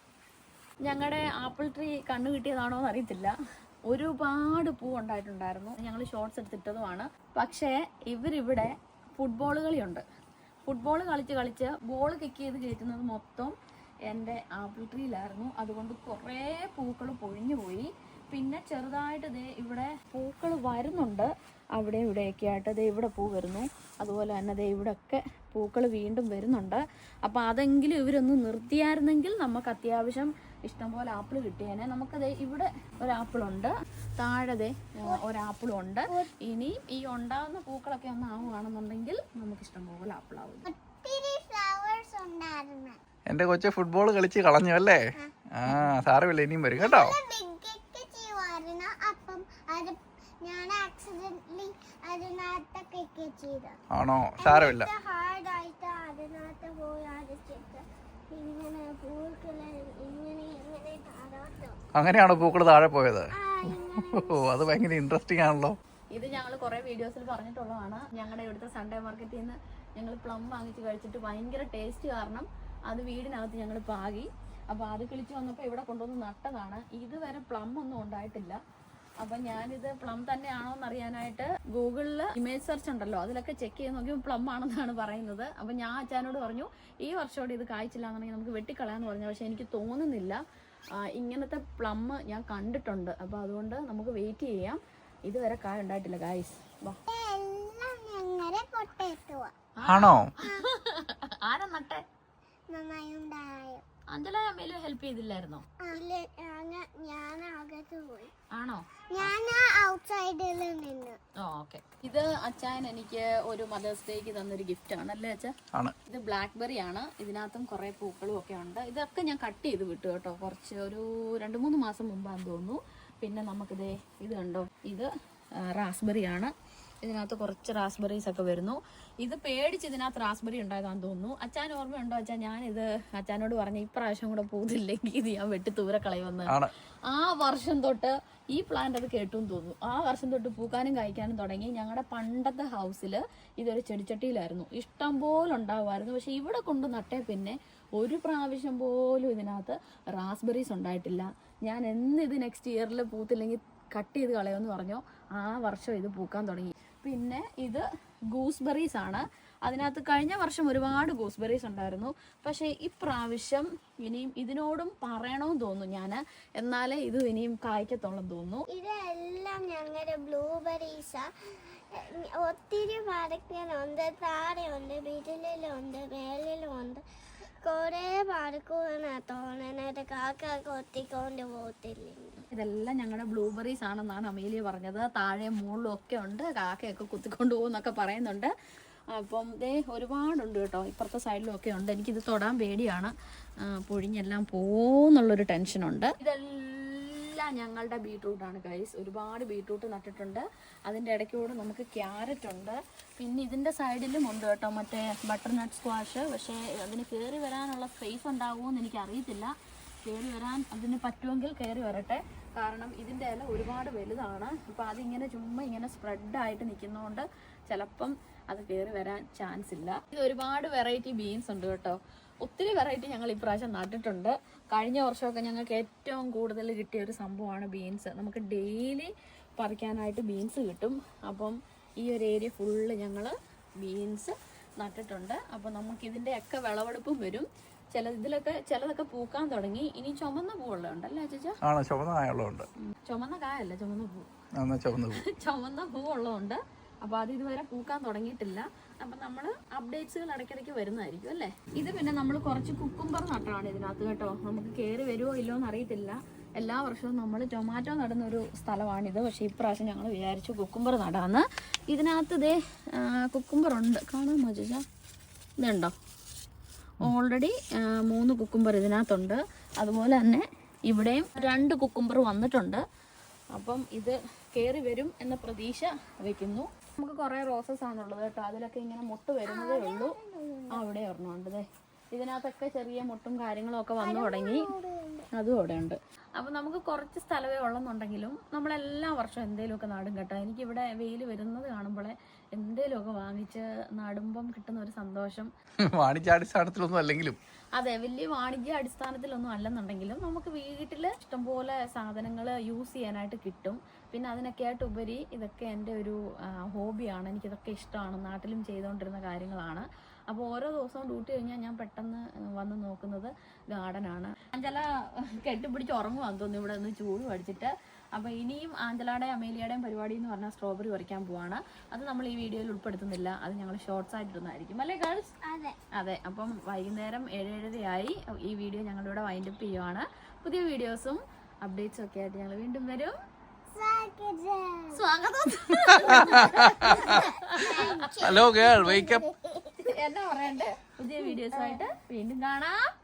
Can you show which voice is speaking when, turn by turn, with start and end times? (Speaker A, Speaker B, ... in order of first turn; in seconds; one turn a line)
Speaker A: 0.8-3.3
Speaker A: 3.9-10.0
Speaker A: 10.7-13.6
Speaker A: 14.1-40.6
Speaker B: 40.7-43.0
Speaker C: 43.3-45.0
Speaker C: 45.5-47.1
Speaker B: 46.8-53.8
Speaker C: 53.9-54.9
Speaker B: 54.4-61.8
Speaker C: 62.0-65.8
Speaker B: 63.4-64.5
Speaker A: 66.1-78.6
Speaker A: 79.2-90.4
Speaker A: 91.0-97.0
Speaker B: 97.1-99.5
Speaker A: 99.8-102.0
Speaker C: 99.8-100.3
Speaker B: 102.7-103.8
Speaker A: 104.1-105.6
Speaker B: 105.8-108.3
Speaker A: 108.5-109.3
Speaker B: 109.1-111.2
Speaker A: 111.4-115.5
Speaker A: 116.1-136.6
Speaker C: 136.5-136.7
Speaker A: 137.1-168.6
Speaker B: 168.7-177.0
Speaker B: 177.6-182.4
Speaker A: 182.5-188.5
Speaker A: 189.1-193.1
Speaker A: 193.6-209.5
Speaker A: 210.0-241.6
Speaker C: 241.6-242.7
Speaker A: 242.9-244.3
Speaker C: 244.6-245.2
Speaker A: 245.1-264.8
Speaker A: 265.6-265.9
Speaker A: 267.0-272.8
Speaker A: 273.5-280.2
Speaker B: 279.5-280.8
Speaker A: 280.7-284.7
Speaker B: 284.0-285.3
Speaker A: 285.3-295.5
Speaker C: 295.9-297.4
Speaker A: 297.8-325.4
Speaker B: 325.4-325.8
Speaker A: 325.9-333.2
Speaker B: 333.7-335.0
Speaker A: 334.9-338.2
Speaker B: 336.0-339.9
Speaker C: 336.3-337.1
Speaker C: 338.2-339.2
Speaker A: 339.8-342.9
Speaker B: 341.5-341.8